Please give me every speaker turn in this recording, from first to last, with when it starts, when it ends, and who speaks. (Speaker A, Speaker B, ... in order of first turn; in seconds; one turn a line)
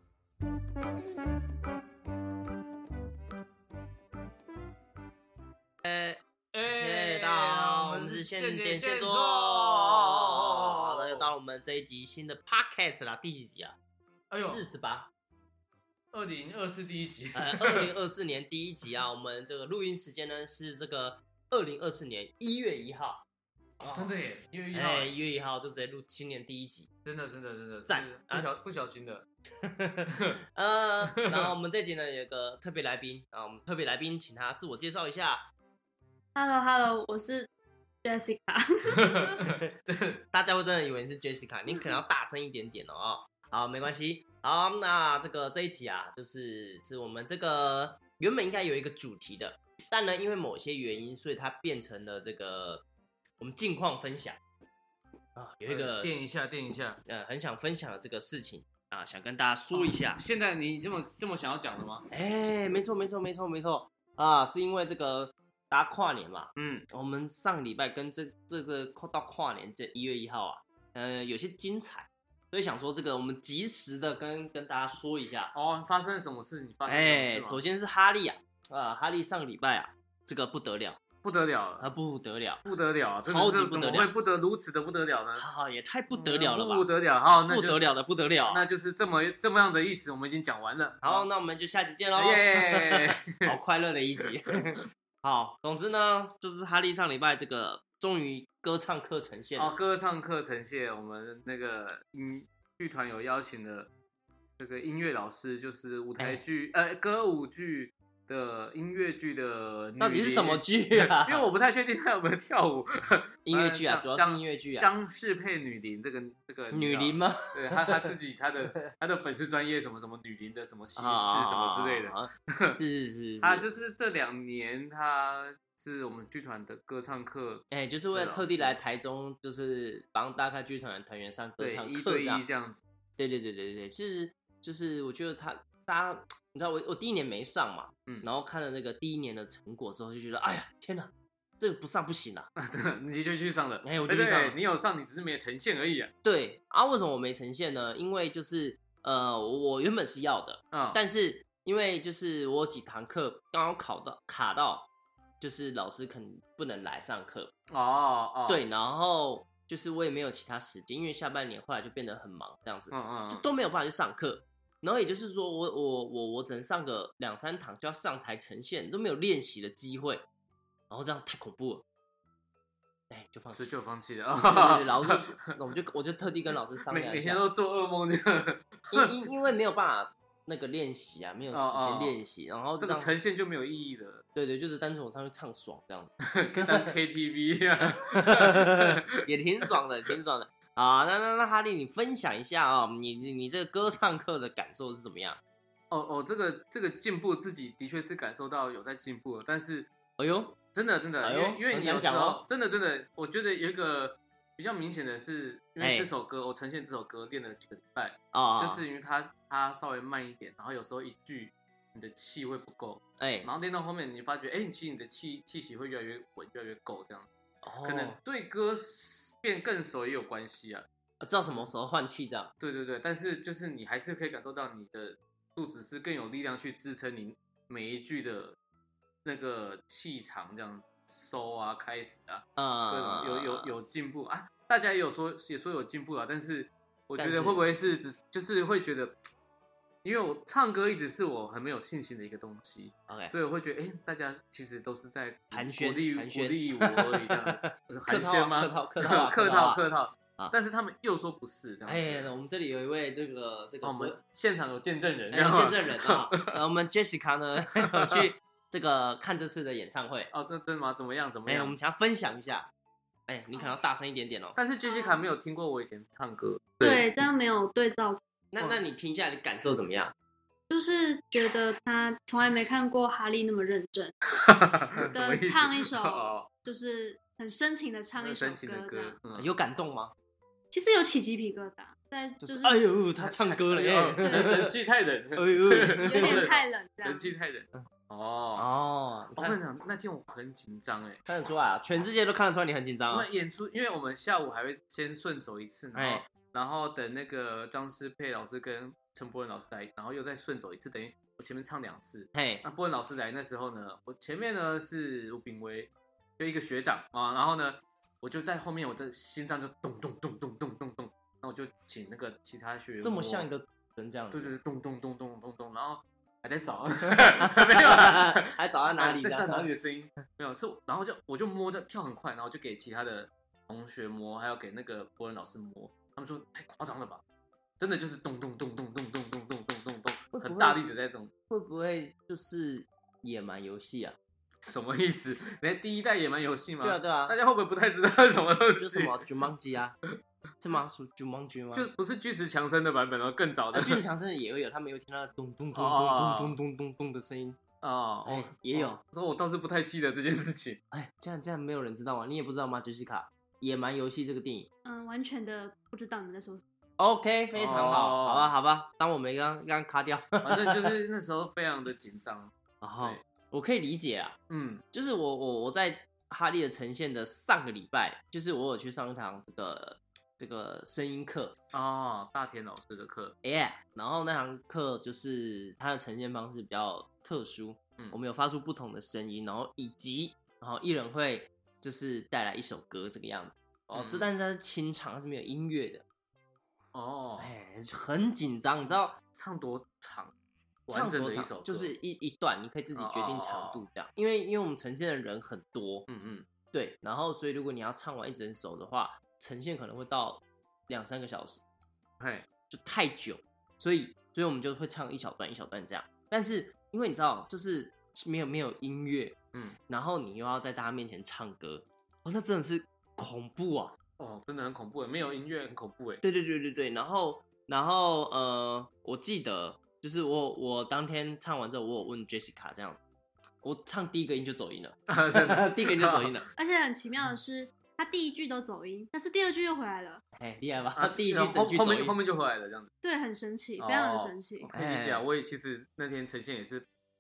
Speaker A: 5.8-6.2
Speaker B: 6.5-11.3
Speaker A: 6.7-13.8
Speaker B: 14.3-14.6
Speaker A: 14.3-15.1
Speaker B: 16.1-17.9
Speaker A: 17.3-23.2
Speaker A: 23.8-24.1
Speaker B: 23.9-25.1
Speaker A: 24.7-26.9
Speaker B: 27.0-29.2
Speaker A: 27.9-28.5
Speaker A: 29.6-35.4
Speaker B: 31.1-31.5
Speaker C: 36.3-37.5
Speaker C: 38.0-39.4
Speaker B: 38.9-40.2
Speaker A: 39.4-39.7
Speaker A: 40.3-52.8
Speaker A: 53.4-54.4
Speaker A: 55.4-56.1
Speaker B: 55.6-57.0
Speaker A: 57.0-60.2
Speaker B: 59.7-62.1
Speaker A: 62.1-75.5
Speaker B: 66.6-66.8
Speaker B: 75.5-77.6
Speaker A: 76.9-81.0
Speaker B: 81.2-81.9
Speaker A: 81.8-82.6
Speaker B: 82.6-85.4
Speaker A: 83.2-84.1
Speaker A: 85.4-86.9
Speaker B: 86.1-87.9
Speaker A: 87.5-88.6
Speaker B: 88.5-91.2
Speaker A: 91.0-99.7
Speaker B: 92.1-93.5
Speaker B: 94.2-94.5
Speaker B: 99.6-103.9
Speaker B: 104.6-122.8
Speaker A: 110.0-111.5
Speaker A: 113.4-114.9
Speaker A: 116.7-118.1
Speaker A: 121.0-123.6
Speaker B: 123.4-128.8
Speaker A: 127.7-132.4
Speaker B: 131.6-132.8
Speaker A: 133.2-142.5
Speaker B: 142.6-146.1
Speaker A: 143.8-144.6
Speaker A: 146.2-154.9
Speaker B: 150.7-151.0
Speaker A: 155.4-157.5
Speaker B: 157.7-158.6
Speaker A: 158.5-170.2
Speaker B: 162.9-163.4
Speaker A: 170.9-171.8
Speaker A: 173.1-173.7
Speaker B: 173.5-175.5
Speaker A: 174.4-177.4
Speaker B: 176.9-179.2
Speaker A: 178.9-183.1
Speaker B: 181.5-182.2
Speaker B: 182.8-184.2
Speaker A: 184.3-186.9
Speaker B: 186.2-189.2
Speaker A: 187.8-195.4
Speaker B: 195.9-199.9
Speaker A: 200.2-200.6
Speaker B: 200.7-217.3
Speaker A: 201.2-202.4
Speaker A: 205.8-206.1
Speaker A: 208.3-208.8
Speaker A: 213.2-213.5
Speaker A: 217.6-218.2
Speaker B: 217.8-220.8
Speaker A: 221.2-222.5
Speaker B: 221.4-221.7
Speaker B: 222.6-228.6
Speaker B: 229.2-239.1
Speaker A: 232.6-233.7
Speaker A: 237.2-237.6
Speaker B: 240.0-252.3
Speaker A: 243.1-243.3
Speaker A: 245.5-249.8
Speaker A: 251.8-254.1
Speaker B: 253.8-256.6
Speaker A: 255.3-260.3
Speaker B: 257.7-258.2
Speaker B: 260.3-261.8
Speaker A: 261.5-262.7
Speaker A: 263.3-264.6
Speaker B: 264.6-267.1
Speaker C: 264.9-265.2
Speaker C: 266.8-268.2
Speaker A: 268.5-270.1
Speaker C: 270.7-274.1
Speaker B: 274.3-276.5
Speaker C: 275.0-279.2
Speaker B: 278.2-279.5
Speaker A: 279.3-280.1
Speaker C: 280.7-282.8
Speaker A: 282.4-284.7
Speaker B: 283.2-288.7
Speaker C: 284.2-284.6
Speaker A: 285.4-286.4
Speaker C: 285.9-287.3
Speaker A: 288.6-289.6
Speaker B: 289.4-291.2
Speaker A: 291.2-293.3
Speaker B: 293.1-313.5
Speaker A: 295.9-296.2
Speaker A: 302.3-302.6
Speaker A: 313.0-314.6
Speaker B: 314.3-327.2
Speaker A: 317.2-319.7
Speaker B: 327.8-331.3
Speaker A: 330.3-330.8
Speaker A: 331.5-334.2
Speaker B: 334.6-339.2
Speaker A: 336.8-337.4
Speaker A: 338.8-340.0
Speaker A: 340.6-341.9
Speaker B: 341.7-344.0
Speaker A: 343.7-347.6
Speaker B: 345.7-346.6
Speaker B: 347.8-350.8
Speaker A: 348.2-349.0
Speaker A: 350.9-354.7
Speaker C: 354.8-356.6
Speaker A: 357.0-360.9
Speaker B: 357.5-358.5
Speaker B: 360.4-363.2
Speaker A: 362.8-364.4
Speaker B: 364.5-364.8
Speaker A: 364.9-371.5
Speaker B: 371.7-373.4
Speaker A: 373.4-386.0
Speaker B: 383.9-384.3
Speaker B: 386.9-387.5
Speaker A: 387.4-389.2
Speaker B: 389.3-390.3
Speaker B: 390.9-391.9
Speaker A: 390.9-396.1
Speaker B: 392.9-393.8
Speaker B: 396.1-396.4
Speaker A: 396.7-401.6
Speaker B: 402.2-402.5
Speaker A: 402.7-409.4
Speaker A: 409.9-413.9
Speaker B: 414.2-416.2
Speaker A: 416.2-423.0
Speaker A: 423.6-426.5
Speaker B: 425.1-426.3
Speaker C: 426.6-430.2
Speaker A: 430.4-432.2
Speaker B: 431.0-432.9
Speaker C: 433.0-434.7
Speaker B: 433.8-436.9
Speaker A: 434.7-435.2